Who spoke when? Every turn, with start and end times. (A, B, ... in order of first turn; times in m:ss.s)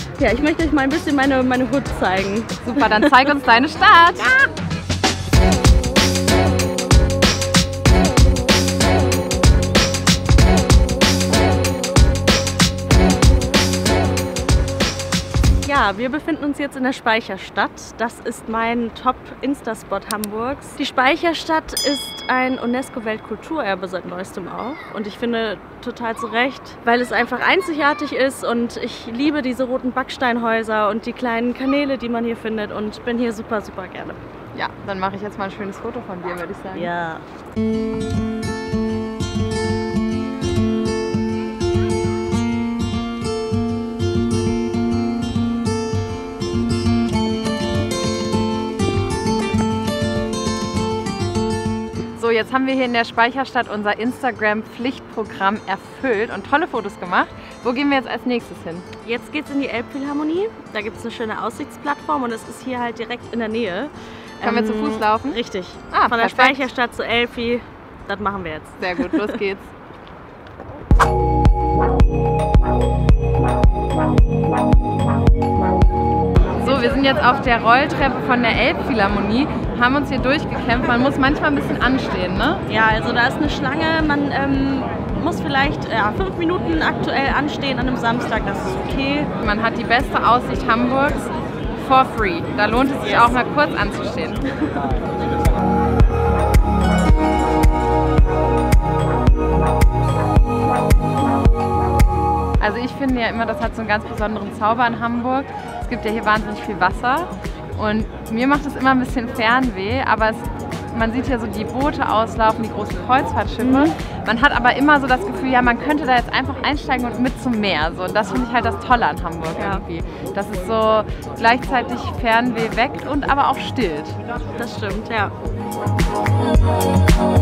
0:00.2-0:03.2 A
0:02.6-0:04.5 B
0:15.6-0:34.2 A
0:34.5-0:36.9 B
0:36.8-0:37.2 A
0:52.2-0:58.9 B
0:59.0-1:09.4 A
1:04.4-1:05.4 B
1:05.9-1:06.6 B
1:08.8-1:09.7 B
1:16.6-1:22.6 B
1:22.7-1:29.3 A
1:29.4-1:34.4 B
1:33.0-1:33.3 A
1:42.6-2:04.2 B
1:53.6-1:54.0 A
1:59.6-1:59.8 A
2:04.6-2:05.3 A